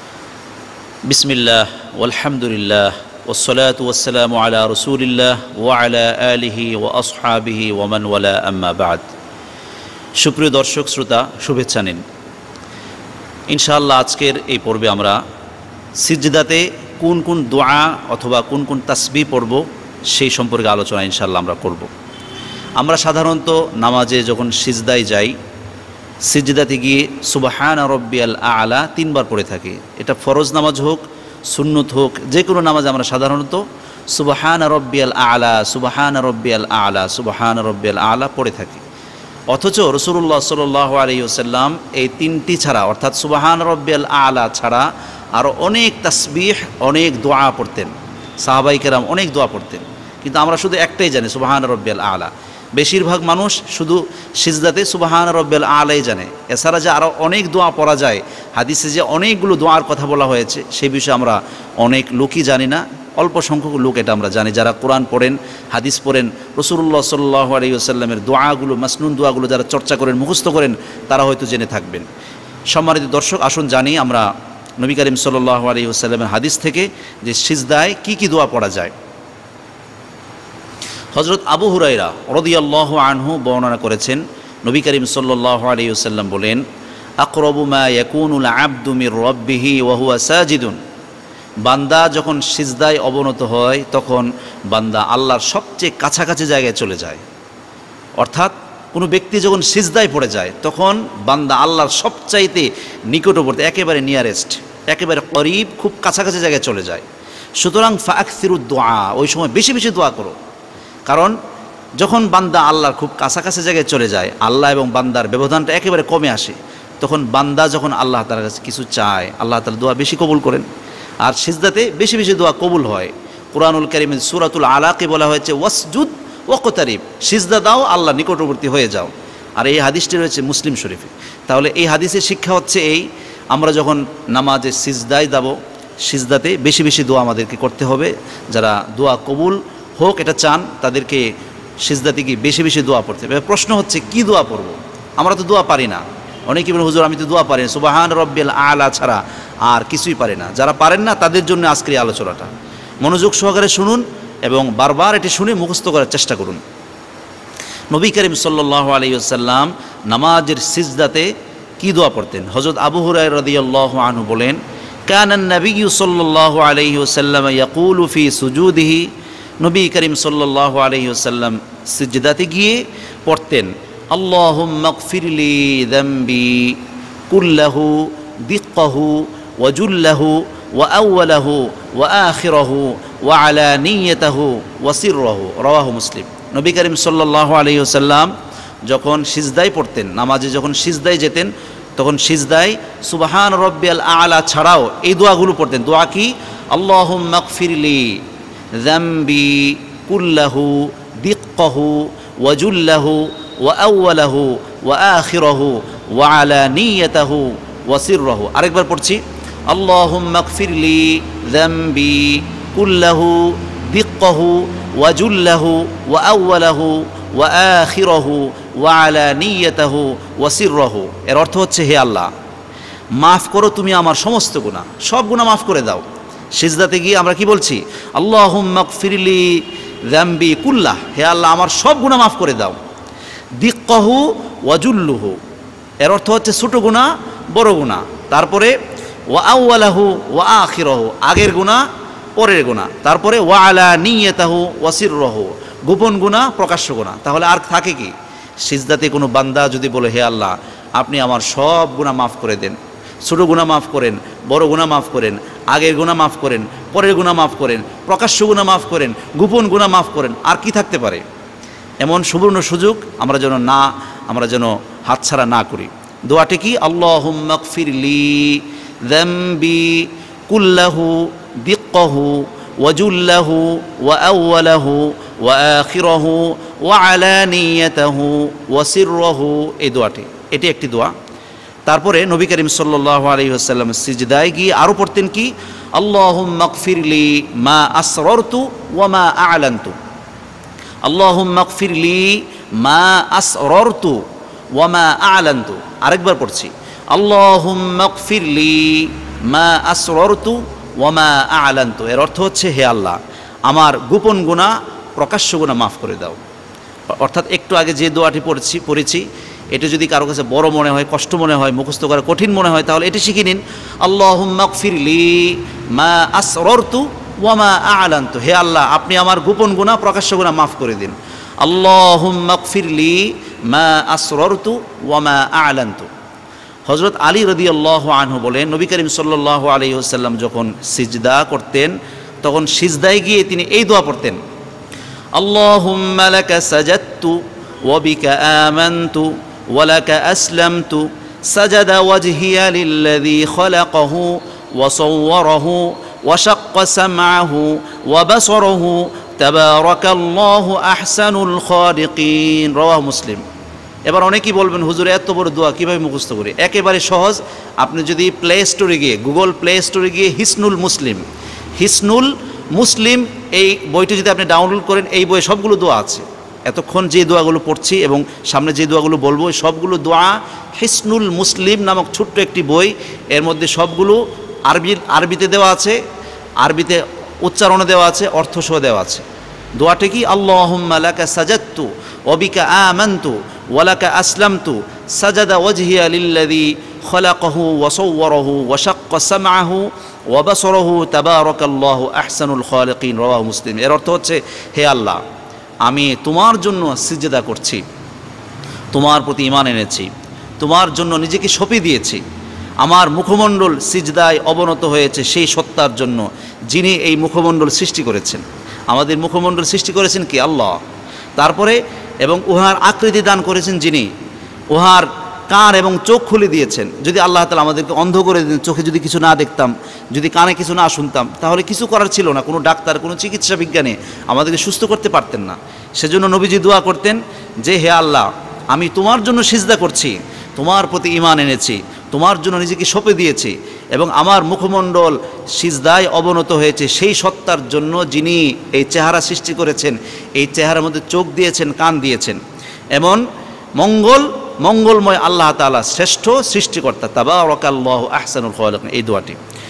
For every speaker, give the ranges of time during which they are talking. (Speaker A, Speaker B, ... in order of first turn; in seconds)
Speaker A: 1.1-9.0, 10.2-12.0, 13.5-15.2, 16.0-21.9, 22.8-25.4, 26.3-38.8, 39.5-47.9, 48.4-72.1, 72.7-74.2, 74.8-78.9, 81.1-86.6, 87.2-90.8, 91.7-97.2, 98.2-107.0, 107.6-110.3, 111.1-111.3, 112.0-120.7, 121.2-135.6, 136.1-141.2, 141.8-152.5, 153.0-156.6, 157.9-169.1, 169.6-188.3, 188.9-198.1, 198.8-222.3, 223.2-226.0, 226.6-232.8, 233.6-235.4, 236.0-238.7, 239.3-241.8, 242.4-248.1, 248.7-261.2, 262.0-281.1, 281.9-290.0, 291.1-294.2, 294.8-306.4, 307.2-326.1, 326.9-334.4, 335.4-353.4, 354.1-361.2, 361.8-376.0, 376.6-379.2, 379.8-395.2, 395.9-397.8, 398.9-400.1, 400.6-402.2, 402.8-410.8, 411.4-414.1, 414.7-442.4, 443.0-443.2, 443.8-449.4